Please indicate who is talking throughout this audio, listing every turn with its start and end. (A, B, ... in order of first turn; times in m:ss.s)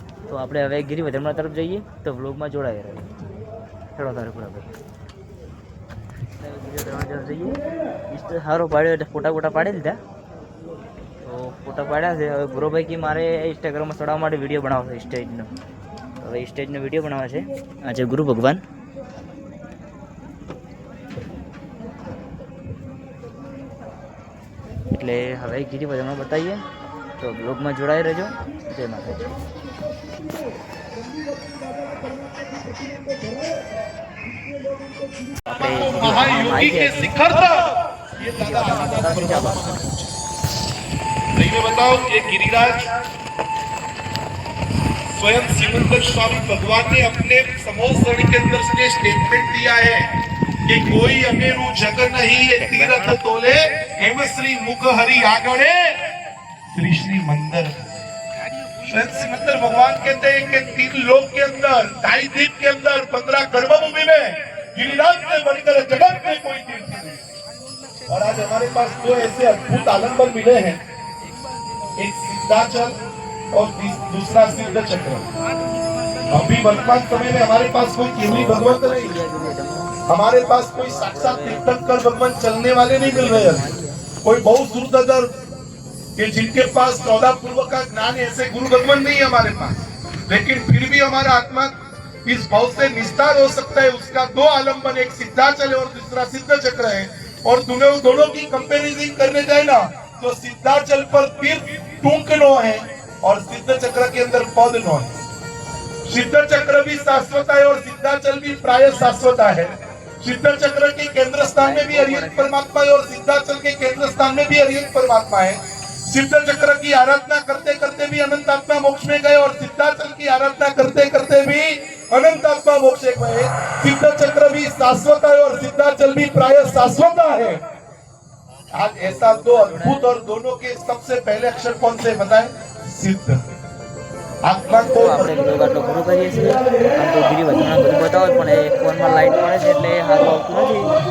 0:00.3-0:03.1 A
0:04.0-0:04.7 A
0:06.4-0:07.6 A
0:08.1-0:10.0 A
0:11.2-0:15.5 A
0:16.2-0:18.6 A
0:24.9-0:26.6 A
0:27.2-0:29.3 A
0:35.5-0:37.1 A
0:35.5-0:40.1 B
0:38.4-0:39.8 A
0:41.4-0:42.9 B
0:45.2-0:56.1 B
0:52.6-0:53.2 A
0:56.7-0:57.8 B
0:58.9-1:07.2 B
1:08.1-1:10.8 B
1:12.0-1:13.0 B
1:13.5-1:15.2 B
1:16.3-1:19.2 B
1:18.2-1:20.0 A
1:20.1-1:23.7 B
1:20.6-1:21.7 A
1:23.0-1:24.0 A
1:24.2-1:25.4 B
1:26.2-1:31.7 B
1:32.3-1:45.1 B
1:46.1-2:07.6 B
1:51.6-1:52.6 A
2:08.8-2:13.4 B
2:09.0-2:10.0 A
2:14.4-2:15.4 B
2:14.9-2:20.9 A